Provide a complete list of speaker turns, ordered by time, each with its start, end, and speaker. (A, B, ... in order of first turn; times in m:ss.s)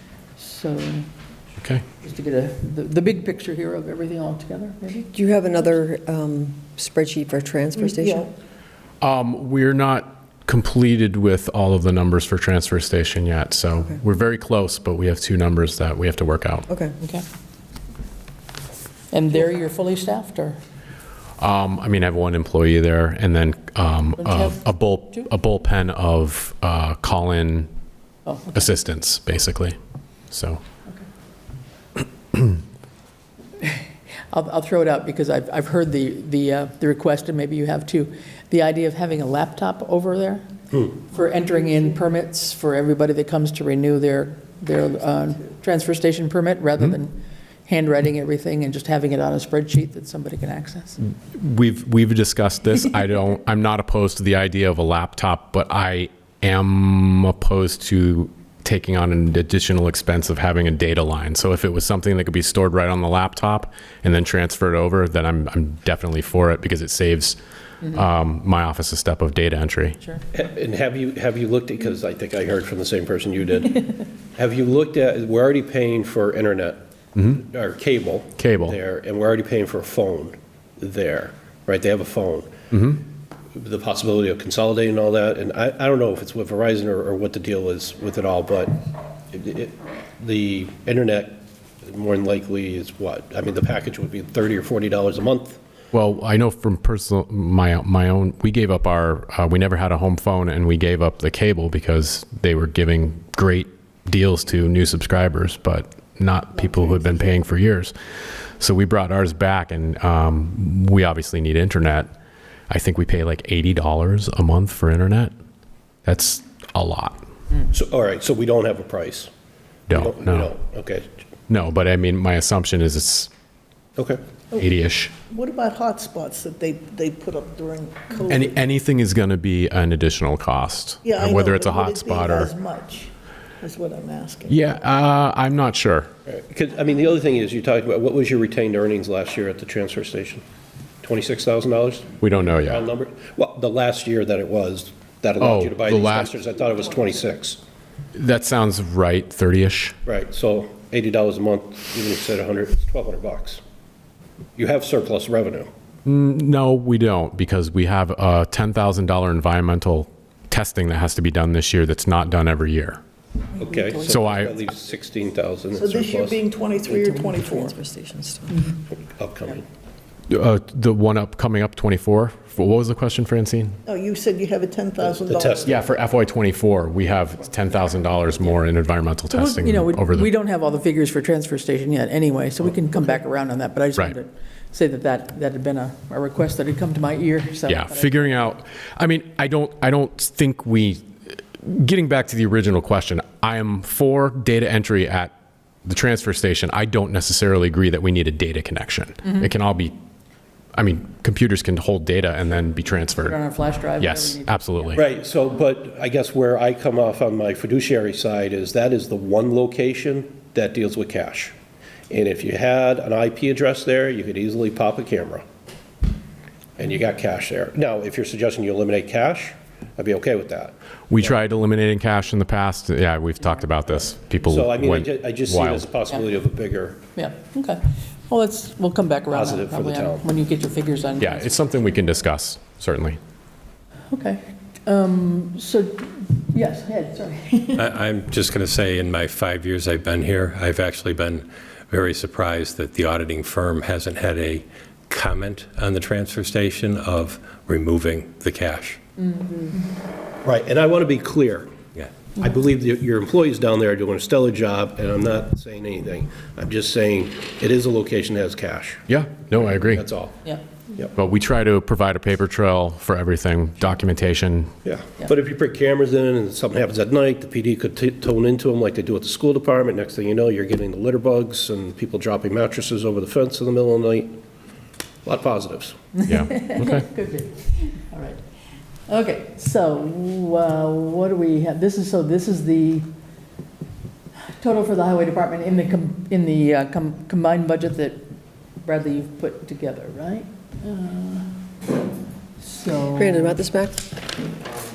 0:00.4-0:01.1 A
0:02.0-0:05.0 A
0:04.9-0:08.3 B
0:07.8-0:08.3 C
0:09.0-0:16.6 D
0:16.7-0:17.0 B
0:19.1-0:20.6 A
0:21.4-0:27.7 D
0:24.2-0:24.6 A
0:28.3-0:28.7 A
0:28.5-0:29.8 D
0:30.3-0:30.6 D
0:34.3-0:51.0 A
0:51.3-1:10.0 D
1:10.3-1:13.8 E
1:14.4-1:16.8 E
1:17.2-1:17.4 D
1:17.4-1:22.5 E
1:18.4-1:18.8 D
1:22.7-1:23.0 D
1:23.5-1:28.8 E
1:29.3-1:35.6 E
1:35.9-1:47.9 D
1:48.6-1:52.1 D
1:52.7-1:55.3 D
1:56.0-1:57.2 D
1:57.7-1:59.3 E
1:59.9-2:00.5 D
1:59.9-2:01.1 E
2:01.5-2:03.3 D
2:04.6-2:05.1 D
2:05.3-2:08.6 C
2:08.3-2:12.5 D
2:11.0-2:14.6 C
2:14.5-2:16.1 D
2:16.3-2:20.4 E
2:21.0-2:22.2 E
2:22.2-2:22.9 D
2:22.7-2:27.6 E
2:25.4-2:26.4 D
2:28.2-2:30.0 D
2:30.1-2:33.6 E
2:34.6-2:35.7 E
2:36.0-2:43.0 D
2:43.6-2:44.2 C
2:43.6-2:46.4 E
2:44.0-2:44.6 D
2:45.7-2:47.8 C
2:46.9-2:48.7 B
2:49.2-2:49.6 E
2:50.3-2:53.8 D
2:53.9-2:55.8 C
2:55.3-2:55.7 E
2:55.6-3:00.3 D
2:59.3-3:08.4 A
3:07.7-3:15.3 D
3:15.9-3:20.0 D
3:20.8-3:23.4 D
3:23.2-3:25.1 A
3:24.0-3:25.0 D
3:25.0-3:31.6 E
3:32.1-3:35.4 E
3:36.8-3:41.2 E
3:41.1-3:45.9 D
3:44.5-3:47.0 E
3:47.2-3:51.6 A
3:49.3-3:50.2 E
3:51.2-3:53.2 D
3:54.1-3:57.9 A
3:57.8-4:09.0 F
4:09.3-4:09.7 A
4:10.4-4:11.7 E
4:12.3-4:19.0 E
4:19.1-4:20.1 D
4:20.0-4:20.3 E
4:21.2-4:24.7 D
4:24.8-4:34.4 E
4:35.2-4:36.0 E
4:36.2-4:38.4 A
4:36.3-4:37.1 D
4:39.1-4:43.1 A
4:44.5-4:51.6 A
4:52.6-4:53.6 A
4:53.2-4:54.1 B